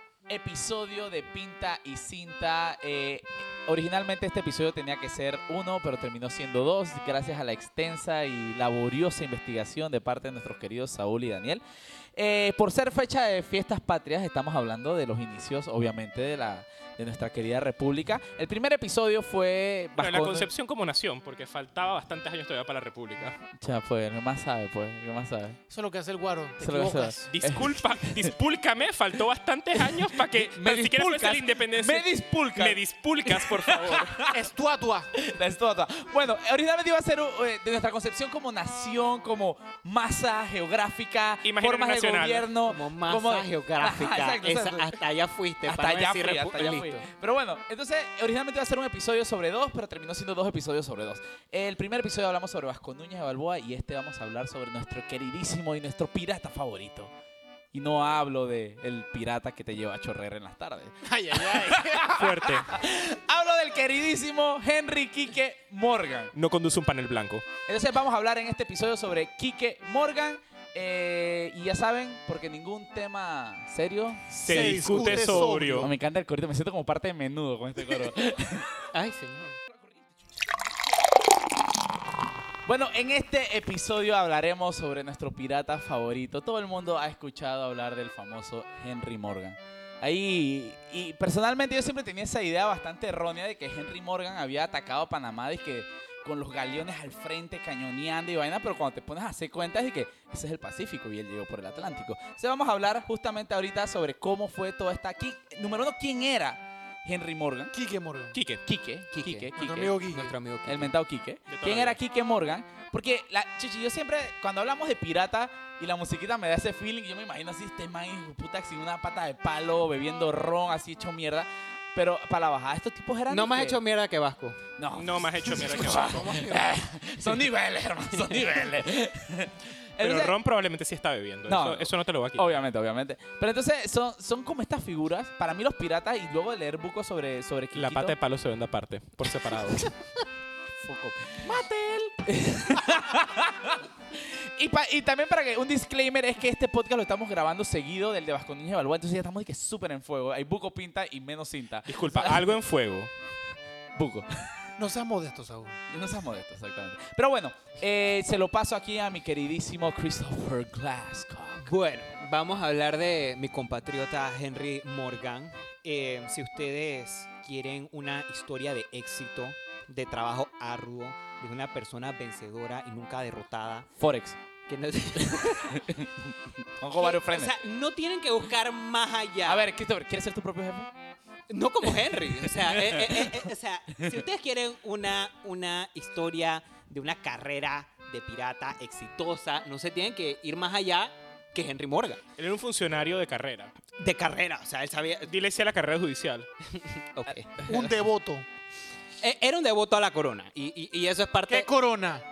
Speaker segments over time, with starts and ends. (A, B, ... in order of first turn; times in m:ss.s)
0:00.3-0:11.6 A
0:12.2-0:20.5 A
0:20.0-0:23.4 B
0:23.6-0:25.6 A
0:25.7-0:27.3 C
0:26.6-0:28.3 A
0:27.3-0:34.2 B
0:29.8-0:34.5 A
0:34.3-0:35.1 C
0:35.1-0:44.9 A
0:41.4-0:42.5 B
0:42.6-0:47.0 D
0:45.6-0:57.1 A
0:57.7-1:06.3 A
1:01.0-1:02.2 C
1:02.1-1:02.7 B
1:06.3-1:07.5 B
1:07.6-1:18.9 A
1:14.4-1:15.9 C
1:14.4-1:15.9 B
1:18.9-1:19.6 D
1:19.7-1:20.1 A
1:22.6-1:47.7 A
1:47.7-1:48.4 C
1:48.3-1:48.6 B
1:48.6-1:49.9 A
1:49.1-1:50.9 D
1:49.6-1:50.3 C
1:50.6-2:03.8 A
1:51.5-1:52.0 B
2:03.3-2:04.6 D
2:04.8-2:10.4 A
2:04.9-2:06.5 B
2:10.0-2:12.6 B
2:11.5-2:18.2 A
2:17.7-2:19.9 B
2:20.8-2:32.6 A
2:31.9-2:33.1 B
2:33.9-2:34.6 A
2:34.8-2:35.8 C
2:35.9-2:41.7 A
2:41.6-2:53.9 D
2:54.0-2:54.4 A
2:54.7-2:55.8 D
2:55.2-2:57.5 A
2:57.0-2:59.7 D
2:59.4-3:00.9 A
3:01.5-3:12.2 D
3:02.8-3:03.2 A
3:12.4-3:13.7 B
3:14.0-3:15.3 D
3:15.3-3:16.5 B
3:16.7-3:17.6 D
3:17.6-3:17.9 A
3:17.6-3:18.4 C
3:19.2-3:21.7 D
3:21.5-3:22.2 C